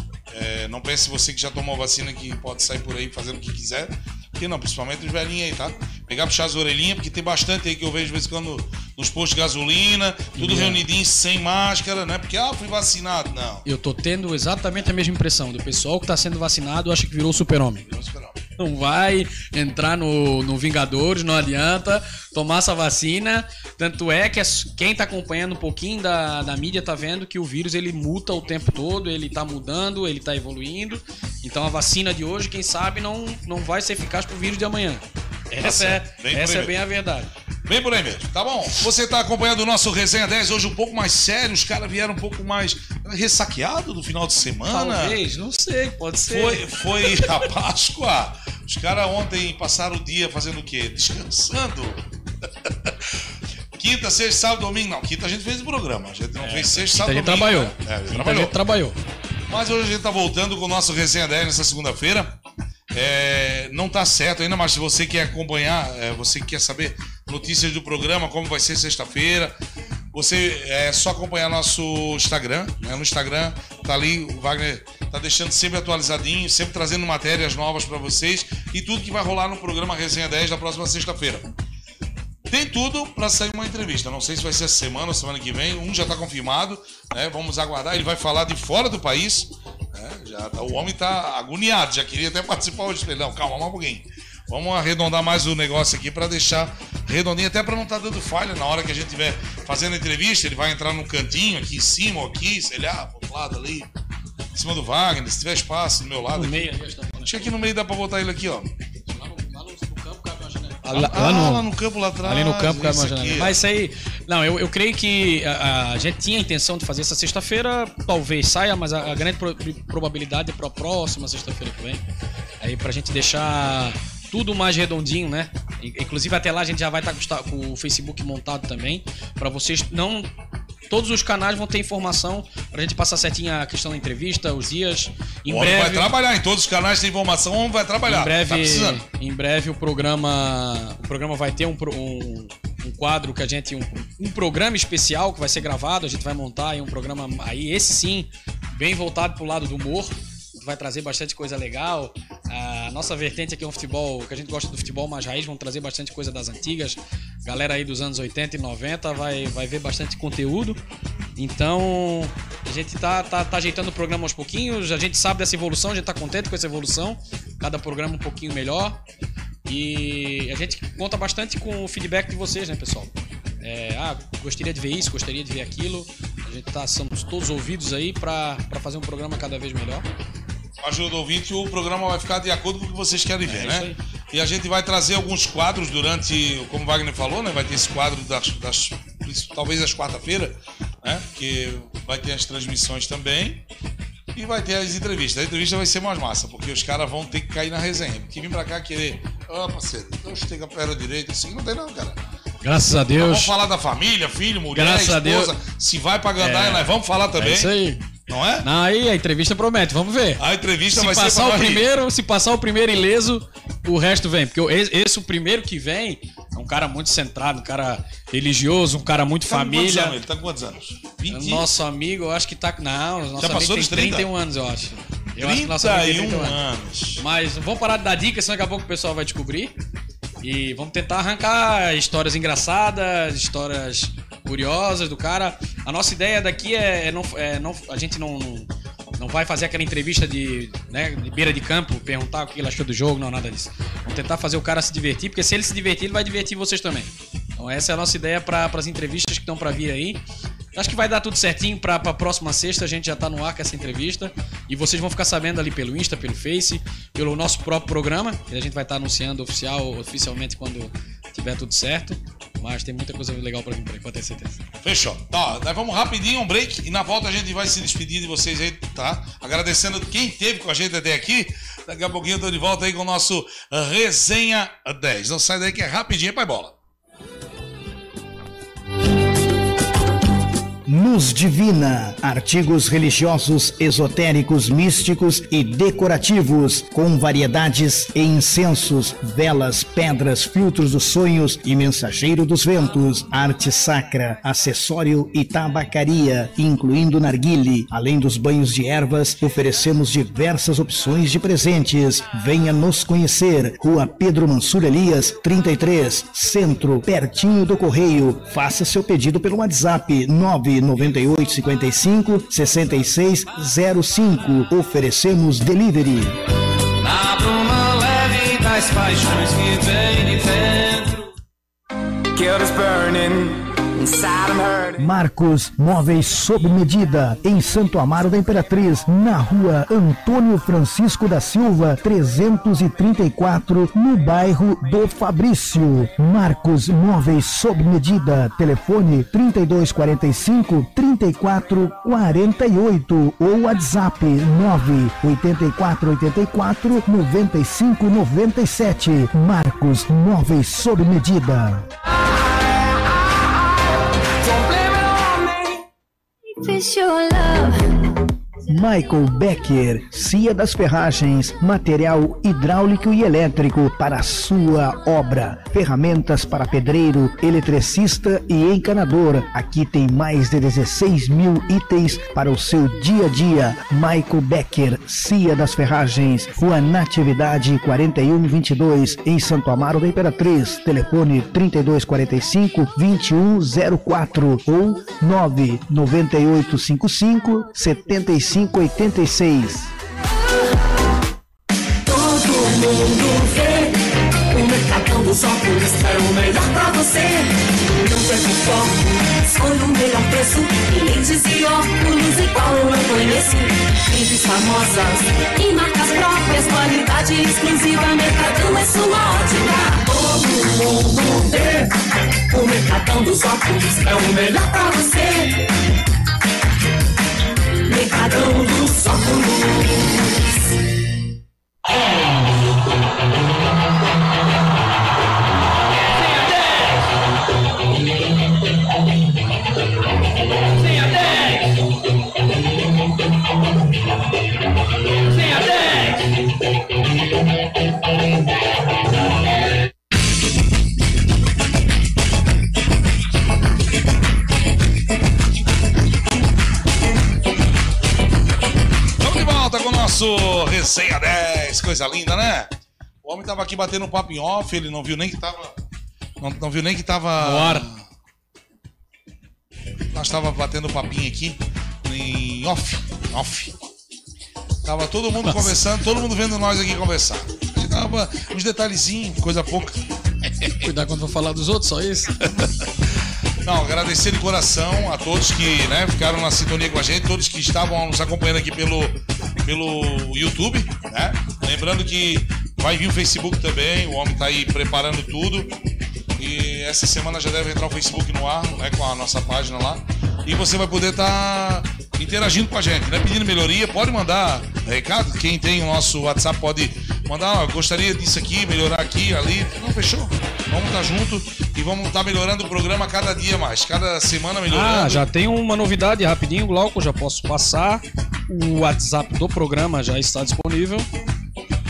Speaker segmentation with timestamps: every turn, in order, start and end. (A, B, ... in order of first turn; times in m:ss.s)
0:00.3-0:13.6 A
0:10.4-0:10.8 B
0:13.6-0:17.9 B
0:17.9-0:18.4 A
0:18.6-0:37.3 B
0:35.6-0:36.8 A
0:37.6-0:45.2 A
0:44.7-0:46.7 B
0:46.3-0:52.0 A
0:52.6-0:53.2 A
0:53.8-0:58.6 A
0:56.4-0:59.0 B
0:59.5-1:02.3 A
1:02.9-1:09.5 A
1:10.1-1:21.5 A
1:22.5-1:43.9 A
1:44.5-1:46.7 A
1:46.3-1:47.6 B
1:47.2-1:48.7 A
1:49.1-1:51.7 B
1:50.9-1:53.6 A
1:52.2-2:02.0 B
2:02.6-2:10.3 B
2:10.9-2:16.1 B
2:15.5-2:19.0 A
2:18.0-2:40.8 B
2:41.4-2:49.0 B
2:49.7-3:00.1 B
3:00.8-3:13.6 A
3:03.4-3:04.0 B
3:14.4-3:22.2 A
3:22.6-3:23.5 B
3:23.2-3:27.7 A
3:24.7-3:25.5 B
3:26.4-3:28.1 B
3:28.3-3:28.7 A
3:28.6-3:40.2 B
3:30.4-3:31.9 A
3:39.4-3:41.7 A
3:41.3-3:46.6 B
3:43.4-3:44.3 A
3:45.4-3:47.2 A
3:47.2-3:49.7 B
3:50.4-4:10.2 B
4:10.7-4:24.6 B
4:24.8-4:36.7 A
4:40.9-5:16.4 C
5:17.0-5:21.0 D
5:22.4-5:23.5 D
5:24.0-5:24.9 D
5:25.0-5:51.9 C
5:56.6-5:57.8 E
5:58.7-6:29.9 C
6:32.1-6:34.0 E
6:34.5-6:51.9 E
6:52.5-6:55.6 E
6:57.9-6:59.9 E
7:29.2-7:32.7 A
7:33.2-7:35.8 A
7:36.4-7:38.0 A
7:37.4-7:37.9 B
7:40.1-7:43.8 A
7:44.8-7:50.0 A
7:45.4-7:45.8 B
7:50.8-7:52.4 B
7:52.6-7:52.8 A
7:53.6-8:05.8 A
8:06.4-8:25.3 A
8:24.7-8:31.1 B